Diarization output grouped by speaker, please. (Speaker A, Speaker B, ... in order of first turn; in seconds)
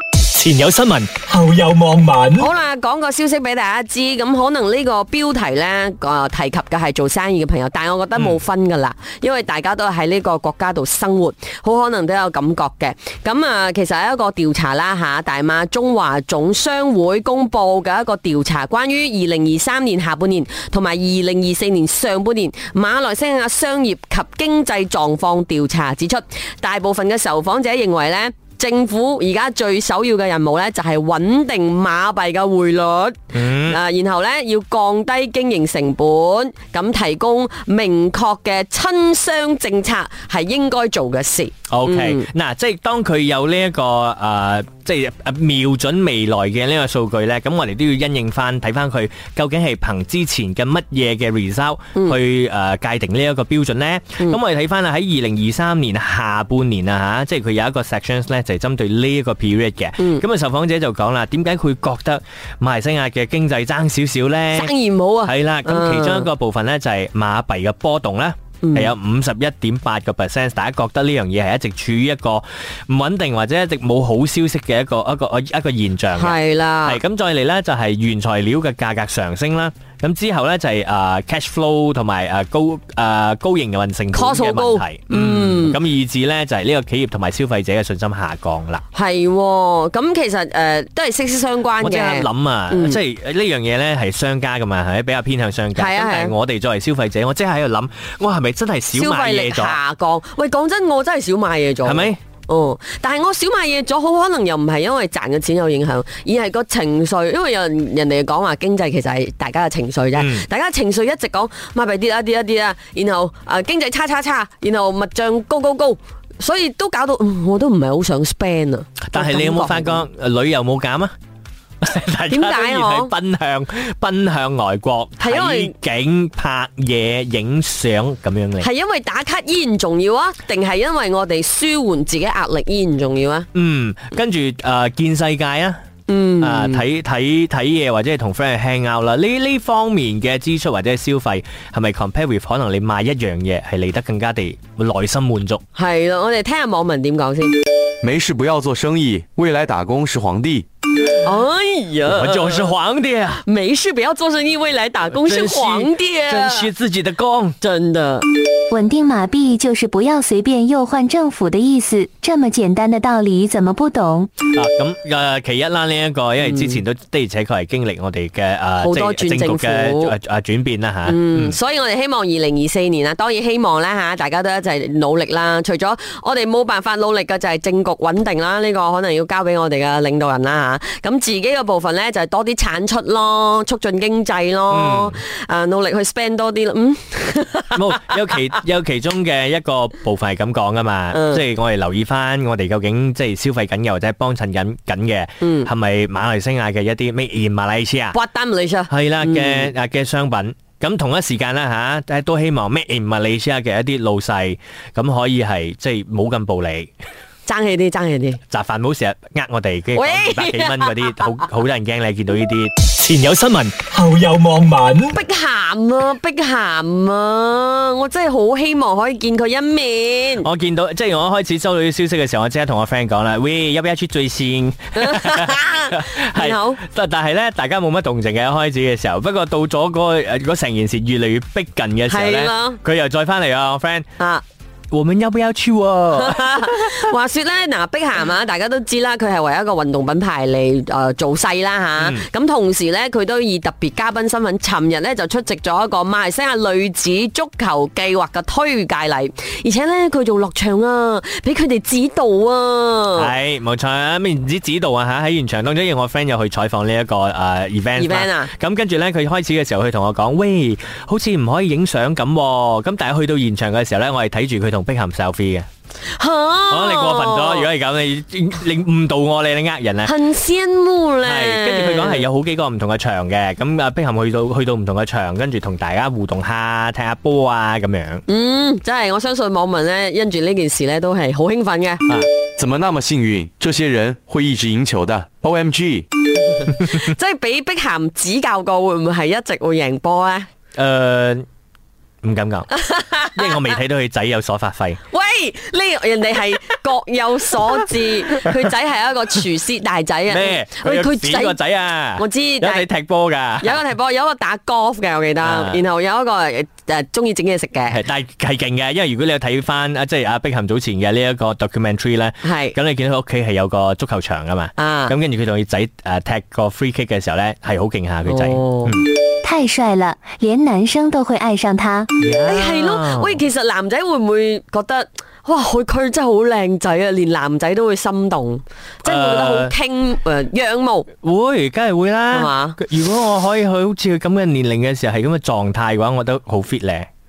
Speaker A: 0.2-1.2, 33.3-33.8, 41.7-64.7, 65.2-88.8, 91.8-99.8, 101.8-102.2, 110.1-110.4, 119.1-121.1, 121.8-128.7, 133.5-135.8, 136.4-145.6, 152.1-153.4, 155.1-157.6, 164.5-171.6, 184.7-185.2, 187.7-198.2, 198.9-206.9, 208.5-213.8, 220.4-234.1, 234.9-236.9, 242.0-242.2, 253.2-265.7, 266.7-270.1, 271.2-278.2, 290.8-291.4, 292.2-292.7, 293.3-295.0, 300.3-303.8, 305.4-305.8, 307.9-319.1, 322.2-323.4, 329.0-329.7, 331.2-337.1
Speaker B: 1.3-2.5, 213.9-215.1
Speaker C: 2.4-42.2, 64.5-66.3, 68.6-68.9, 76.1-77.0, 84.1-85.8, 88.9-93.0, 95.7-96.3, 98.9-120.0, 122.3-123.1, 125.2-125.7, 128.6-133.5, 136.1-136.8, 145.8-147.6, 151.2-152.7, 153.4-156.7, 157.6-158.2, 166.4-166.8, 168.8-170.1, 171.1-188.2, 191.1-191.4, 195.4-195.7, 198.1-199.7, 207.4-208.4, 209.9-211.3, 215.1-220.4, 224.9-226.8, 232.1-232.8, 236.2-253.3, 258.0-258.5, 266.1-267.7, 270.0-272.2, 278.3-282.0, 286.5-290.5, 292.8-293.8, 295.1-301.6, 302.1-302.9, 303.6-308.0, 312.4-312.8, 314.8-315.1, 318.2-318.9, 322.4-331.1, 332.3-332.8
Speaker D: 148.0-150.7, 282.6-286.1
Speaker E: 158.7-164.3, 319.4-322.1